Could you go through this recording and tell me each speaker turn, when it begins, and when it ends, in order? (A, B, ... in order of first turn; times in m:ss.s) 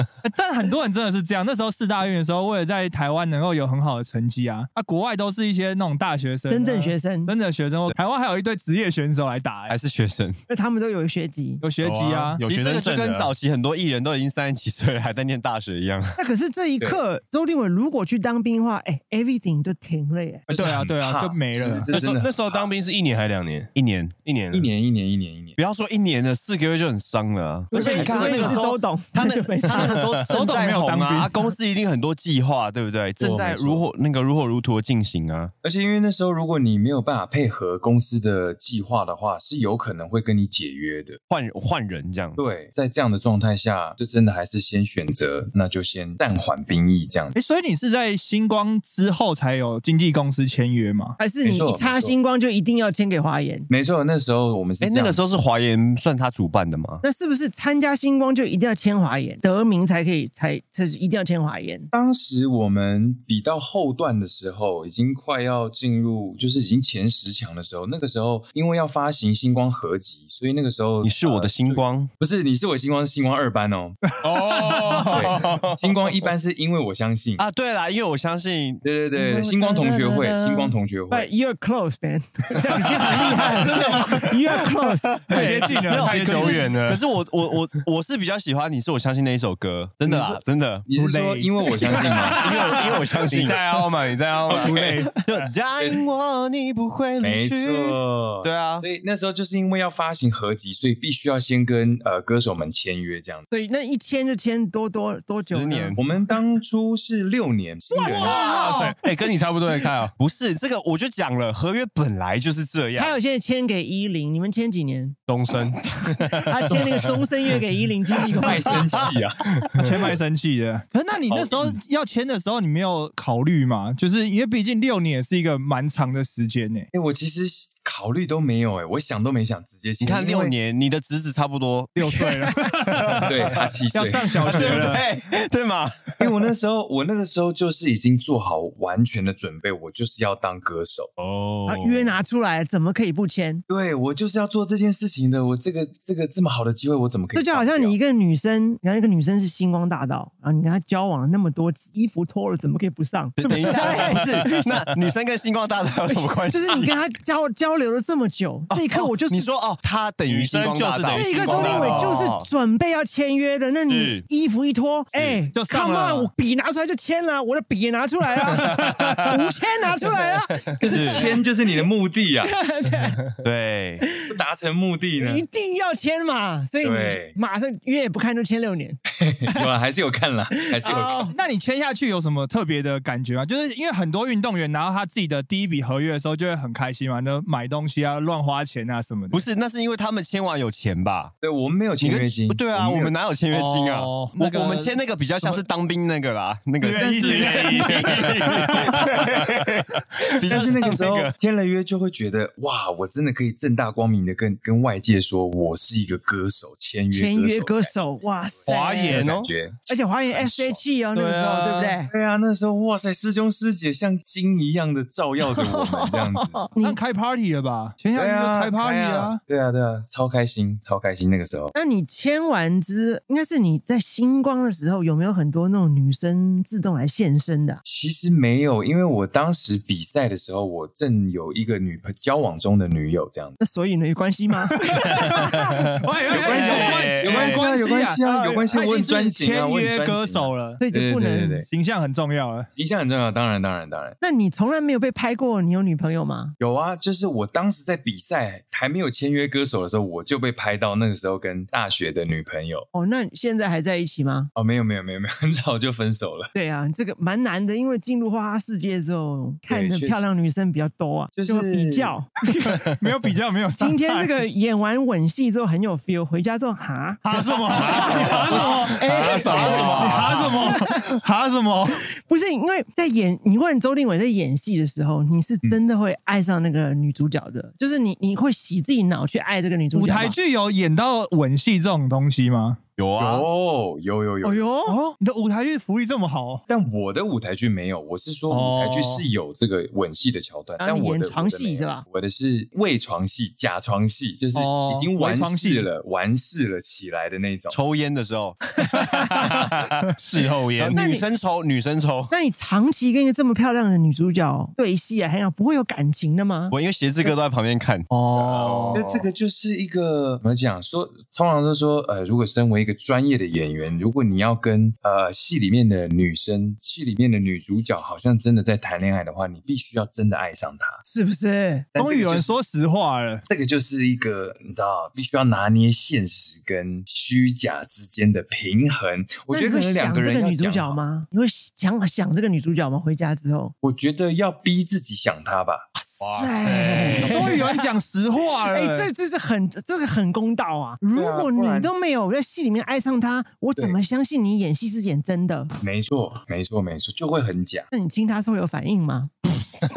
0:00.2-0:09.8 A
0:06.5-0:07.3 B
0:09.7-0:10.4 C
0:10.5-0:11.6 B
0:11.6-0:12.4 A
0:11.8-0:13.3 D
0:12.4-0:16.2 C
0:16.2-0:20.5 B
0:20.5-0:21.9 A
0:20.5-0:22.7 E
0:21.9-0:23.7 D
0:23.8-0:24.2 C
0:24.2-0:24.7 D
0:24.5-0:25.6 E
0:25.6-0:35.5 C
0:27.7-0:30.2 B
0:27.8-0:28.6 A
0:30.3-0:31.4 A
0:33.2-0:33.8 E
0:35.6-0:41.2 E
0:41.3-0:42.4 C
0:42.4-0:47.4 E
0:47.4-0:51.2 A
0:51.2-0:53.7 B
0:51.4-0:52.2 E
0:53.7-0:55.2 E
0:54.8-0:57.0 C
0:57.0-1:01.9 B
1:01.9-1:14.0 E
1:11.0-1:12.1 C
1:14.1-1:15.2 A
1:14.2-1:15.8 D
1:15.1-1:17.4 E
1:17.4-1:20.8 C
1:18.8-1:21.3 E
1:21.1-1:25.8 B
1:23.1-1:24.3 C
1:23.6-1:24.3 A
1:25.3-1:26.7 A
1:25.4-1:30.9 C
1:25.4-1:27.0 D
1:30.0-1:32.5 E
1:30.9-1:33.0 A
1:31.9-1:33.6 C
1:32.4-1:32.7 D
1:33.3-1:35.2 D
1:34.5-1:35.2 A
1:34.7-1:38.9 C
1:37.2-1:43.5 E
1:43.5-1:46.1 B
1:45.5-1:46.0 C
1:46.0-1:48.4 E
1:48.0-1:48.9 B
1:48.1-1:49.0 A
1:48.2-1:50.1 D
1:50.2-1:53.2 C
1:53.0-1:55.2 B
1:55.3-1:57.3 D
1:56.2-1:59.1 B
1:58.4-1:59.5 E
1:59.6-1:59.9 D
1:59.8-2:06.9 A
2:01.3-2:01.8 E
2:06.9-2:10.6 E
2:10.0-2:13.3 C
2:12.0-2:13.3 A
2:13.2-2:15.0 E
2:13.9-2:15.1 A
2:14.4-2:16.3 C
2:16.2-2:21.1 E
2:21.2-2:22.2 D
2:21.7-2:23.6 B
2:23.7-2:28.0 E
2:27.3-2:34.9 B
2:33.4-2:37.0 C
2:36.1-2:39.5 B
2:38.7-2:42.5 C
2:40.3-2:42.3 D
2:41.1-2:51.8 B
2:43.9-2:44.3 C
2:45.5-2:46.3 A
2:48.7-2:49.2 D
2:50.8-2:51.3 D
2:50.8-2:52.5 E
2:52.4-2:53.2 B
2:53.4-2:54.1 C
2:54.3-2:55.4 E
2:55.2-2:59.0 B
2:56.8-2:57.4 E
2:59.1-3:01.3 E
3:00.7-3:01.4 B
3:01.3-3:09.4 A
3:09.3-3:11.3 C
3:11.4-3:13.1 E
3:12.0-3:21.3 C
3:13.5-3:15.6 A
3:16.8-3:19.1 A
3:17.0-3:17.9 E
3:17.4-3:18.7 D
3:20.5-3:28.0 E
3:27.1-3:29.3 B
3:28.6-3:30.8 E
3:28.7-3:29.5 D
3:29.9-3:32.1 B
3:31.1-3:32.0 D
3:32.1-3:36.6 E
3:35.5-3:37.0 B
3:36.8-3:39.4 A
3:38.1-3:41.7 E
3:41.8-3:47.8 B
3:47.8-3:53.6 E
3:53.6-3:56.0 B
3:54.7-4:00.8 A
3:55.3-3:55.8 D
3:56.3-3:57.6 D
3:56.3-4:01.7 E
4:00.8-4:01.6 B
4:01.7-4:02.7 A
4:02.8-4:04.2 E
4:04.2-4:06.6 B
4:06.6-4:12.9 E
4:12.9-4:14.5 B
4:14.6-4:16.5 E
4:16.5-4:23.0 B
4:19.7-4:20.3 E
4:21.4-4:22.1 E
4:22.8-4:24.4 A
4:23.8-4:31.0 B
4:27.2-4:32.0 A
4:27.7-4:30.5 D
4:29.4-4:30.6 C
4:32.2-4:40.4 B
4:39.9-4:42.8 A
4:43.0-4:43.5 C
4:43.2-4:44.7 E
4:44.4-4:45.0 B
4:44.9-4:46.6 A
4:46.7-4:57.8 E
4:48.5-4:49.3 A
4:50.8-4:52.0 B
4:54.6-4:55.9 A
4:57.7-4:58.6 C
4:59.0-5:01.0 D
5:00.8-5:02.3 C
5:00.9-5:01.3 B
5:02.3-5:06.7 B
5:06.7-5:08.1 C
5:08.1-5:09.0 A
5:08.4-5:09.3 D
5:08.9-5:21.0 E
5:21.0-5:21.9 B
5:22.0-5:22.6 E
5:22.0-5:23.4 A
5:23.5-5:31.0 E
5:29.5-5:33.7 B
5:33.8-5:35.9 E
5:36.0-5:37.9 B
5:36.2-5:37.6 D
5:37.2-5:39.1 A
5:38.6-5:45.7 B
5:41.2-5:41.9 E
5:45.8-5:47.9 E
5:47.9-5:49.5 B